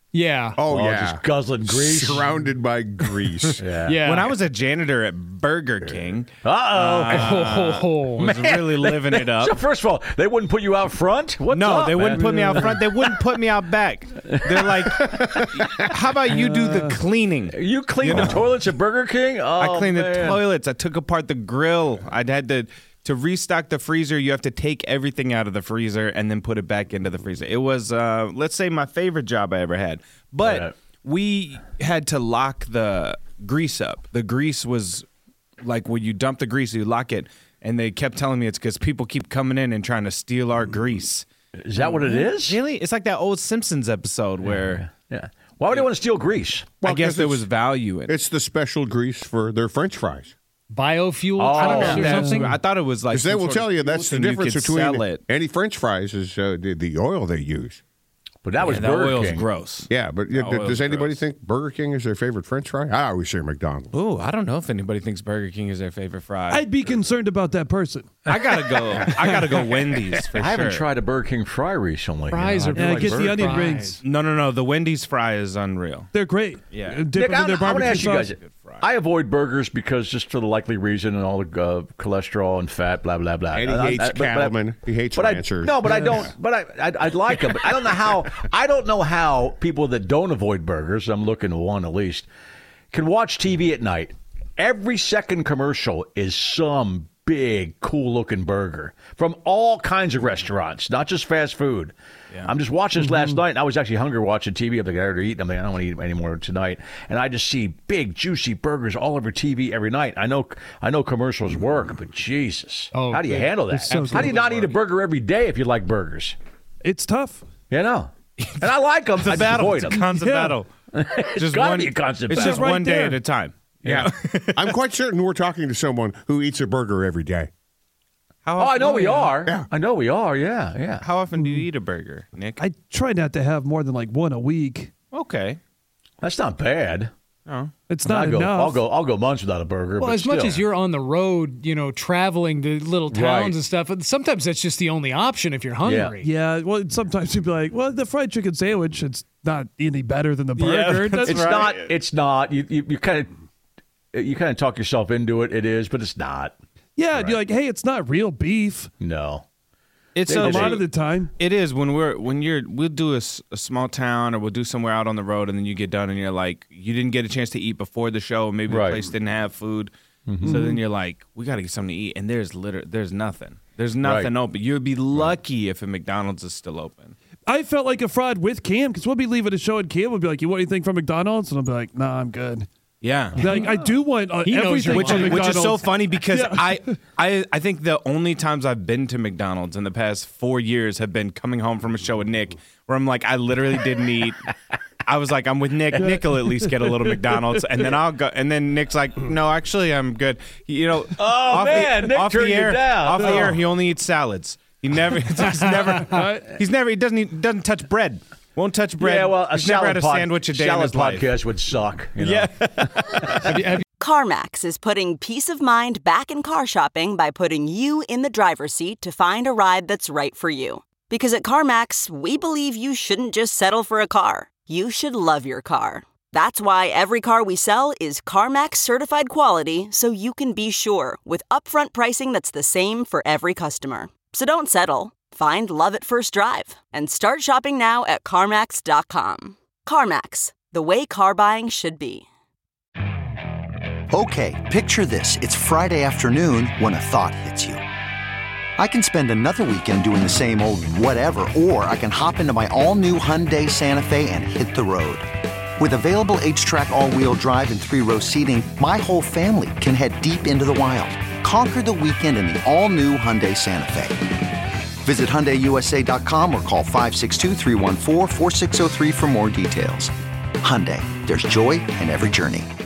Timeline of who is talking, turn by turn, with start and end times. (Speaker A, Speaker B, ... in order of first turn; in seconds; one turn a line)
Speaker A: 0.1-0.6
Speaker B: 0.6-3.6
Speaker C: 0.7-2.3
Speaker C: 3.6-4.0
Speaker A: 3.9-4.3
Speaker D: 4.0-9.6
Speaker C: 6.4-7.4
Speaker A: 7.1-8.3
Speaker C: 8.2-13.3
Speaker D: 11.5-18.5
Speaker E: 12.1-12.6
Speaker C: 14.3-15.2
Speaker B: 14.8-15.7
Speaker E: 16.3-17.0
Speaker C: 17.5-20.5
Speaker D: 19.6-35.1
Speaker C: 30.4-30.7
Speaker D: 35.6-41.3
Speaker C: 41.6-42.6
Speaker D: 41.8-44.9
Speaker C: 44.4-46.8
Speaker B: 46.8-47.5
Speaker D: 46.8-48.2
Speaker B: 48.1-50.3
Speaker A: 50.7-52.6
Speaker C: 51.4-52.3
Speaker D: 51.5-55.2
Speaker B: 53.1-57.8
Speaker C: 58.4-59.5
Speaker D: 58.6-61.2
Speaker B: 59.9-63.9
Speaker D: 63.9-66.9
Speaker E: 66.5-69.1
Speaker D: 68.3-70.9
Speaker C: 70.4-73.4
Speaker A: 72.3-74.0
Speaker E: 72.7-74.0
Speaker D: 74.0-76.1
Speaker E: 76.1-78.3
Speaker D: 76.7-78.9
Speaker C: 77.1-84.6
Speaker B: 83.5-85.8
Speaker C: 85.2-92.3
Speaker E: 85.9-86.3
Speaker C: 92.9-116.4
Speaker E: 103.0-103.4
Speaker A: 112.9-114.1
Speaker E: 113.9-114.4
Speaker D: 114.2-114.6
Speaker E: 116.8-117.4
Speaker C: 117.7-120.1
Speaker D: 119.2-120.7
Speaker E: 120.1-120.6
Speaker C: 120.9-122.6
Speaker D: 121.4-124.7
Speaker E: 122.3-123.2
Speaker B: 123.8-127.5
Speaker D: 128.4-129.4
Speaker C: 128.6-131.1
Speaker D: 131.0-132.6
Speaker E: 131.4-131.7
Speaker E: 132.6-134.9
Speaker D: 135.1-135.6
Speaker C: 136.2-137.1
Speaker D: 137.5-137.7
Speaker E: 137.9-138.8
Speaker C: 138.1-140.6
Speaker A: 140.0-146.3
Speaker C: 143.1-143.6
Speaker C: 145.8-146.2
Speaker E: 146.2-151.6
Speaker D: 150.6-151.9
Speaker C: 151.2-153.3
Speaker C: 154.1-156.6
Speaker E: 157.0-158.9
Speaker C: 157.1-157.4
Speaker C: 159.0-159.4
Speaker D: 160.2-169.9
Speaker C: 160.2-160.8
Speaker E: 160.4-161.3
Speaker C: 168.7-169.0
Speaker C: 170.3-170.6
Speaker E: 170.4-170.8
Speaker D: 170.4-177.2
Speaker C: 174.0-174.3
Speaker E: 177.5-182.7
Speaker D: 183.0-183.7
Speaker E: 183.4-186.9
Speaker A: 183.4-183.8
Speaker A: 184.4-185.5
Speaker D: 184.9-194.4
Speaker D: 195.1-211.4
Speaker E: 195.9-196.7
Speaker C: 201.2-203.6
Speaker E: 203.2-203.5
Speaker E: 205.6-206.5
Speaker C: 209.0-212.5
Speaker D: 212.2-213.8
Speaker A: 213.5-213.8
Speaker F: 214.0-242.2
Speaker G: 244.1-247.8
Speaker G: 248.8-264.4
Speaker G: 265.0-272.7